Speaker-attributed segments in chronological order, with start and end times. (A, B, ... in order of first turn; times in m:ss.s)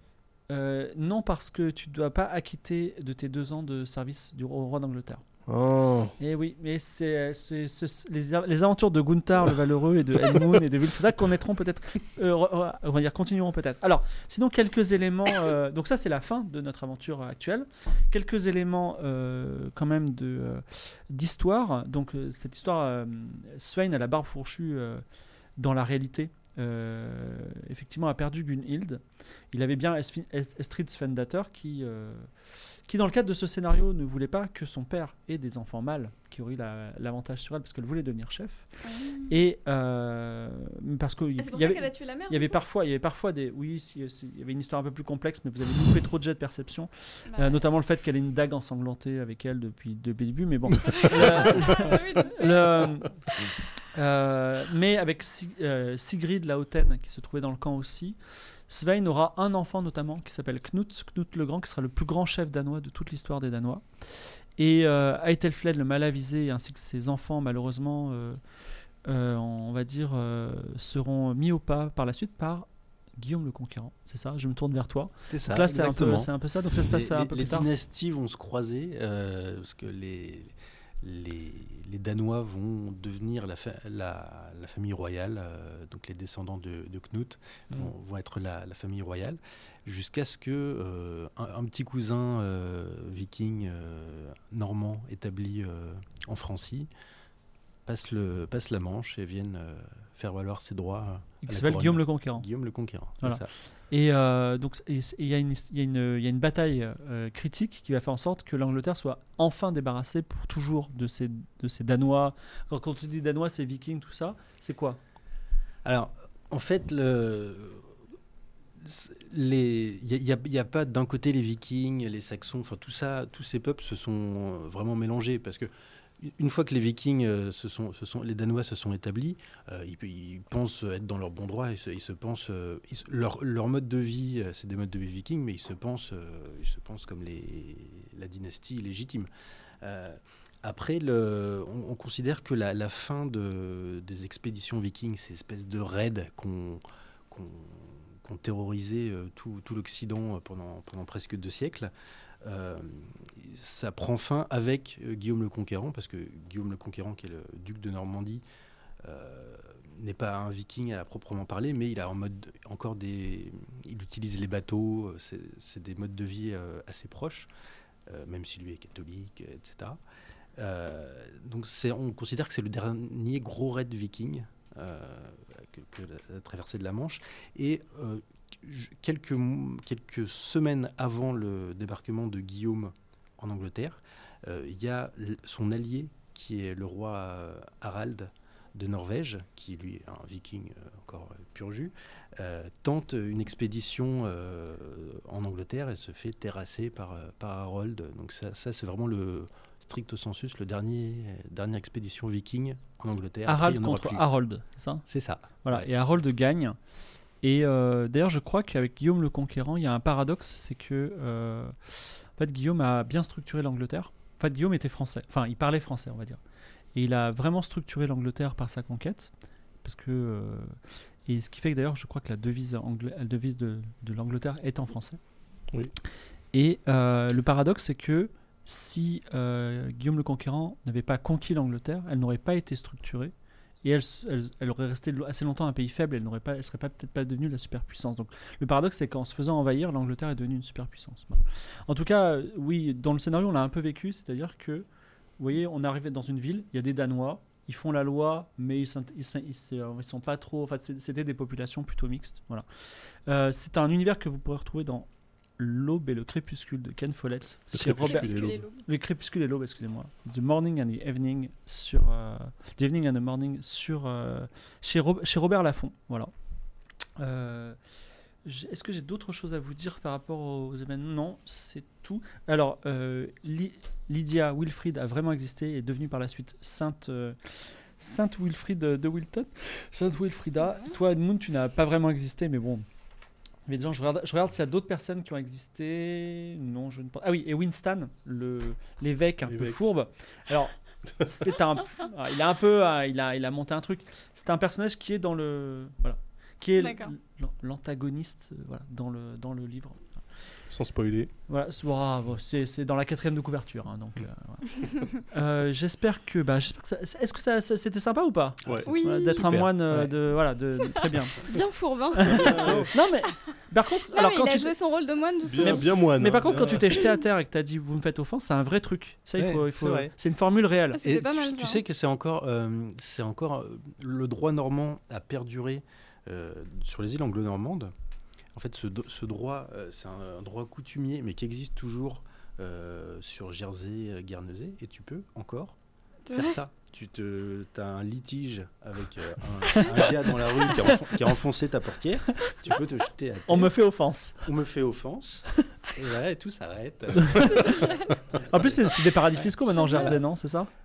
0:00.5-0:05.2 A
0:05.5-0:06.1 B
0:06.2-0:25.0 A
0:25.6-0:32.3 A
0:32.9-0:38.7 A
0:38.8-0:39.3 C
0:39.3-0:53.1 A
0:41.4-0:42.6 C
0:47.3-0:47.6 C
0:50.9-0:53.0 C
0:54.0-0:58.2 A
0:58.7-1:08.4 A
1:09.0-1:17.7 A
1:15.3-1:36.9 D
1:37.9-1:43.5 D
1:41.4-1:42.5 A
1:43.2-1:55.0 A
1:55.8-1:58.0 D
1:58.8-2:19.3 D
2:19.8-2:31.9 D
2:32.4-2:38.4 D
2:39.0-2:47.5 D
2:48.1-2:50.0 D
2:50.6-3:24.2 D
3:23.5-3:25.0 A
3:25.1-3:25.9 D
3:25.6-3:26.8 A
3:27.4-3:36.4 A
3:37.0-3:39.3 A
3:39.8-3:45.2 A
3:46.5-4:04.9 A
4:05.4-4:12.6 A
4:13.3-4:26.3 A
4:17.7-4:18.6 B
4:18.0-4:18.8 C
4:27.2-4:27.8 A
4:28.4-4:42.9 A
4:40.6-4:40.9 C
4:43.7-5:00.0 A
4:49.5-4:49.8 B
4:56.8-4:57.1 C
5:00.7-5:01.3 B
5:01.5-5:11.5 A
5:04.8-5:05.1 C
5:08.6-5:10.1 D
5:08.9-5:09.5 C
5:10.9-5:12.9 C
5:12.2-5:14.7 A
5:12.2-5:12.9 B
5:14.1-5:16.0 C
5:15.4-5:17.0 B
5:15.6-5:21.0 A
5:19.4-5:20.1 D
5:20.9-5:21.8 C
5:21.0-5:27.9 D
5:28.5-5:35.8 D
5:36.3-5:36.6 C
5:36.3-5:43.7 D
5:39.7-5:40.1 A
5:40.7-5:41.1 A
5:43.5-5:44.4 A
5:44.4-5:49.5 D
5:47.5-5:48.2 C
5:48.4-5:50.7 A
5:49.7-5:50.2 C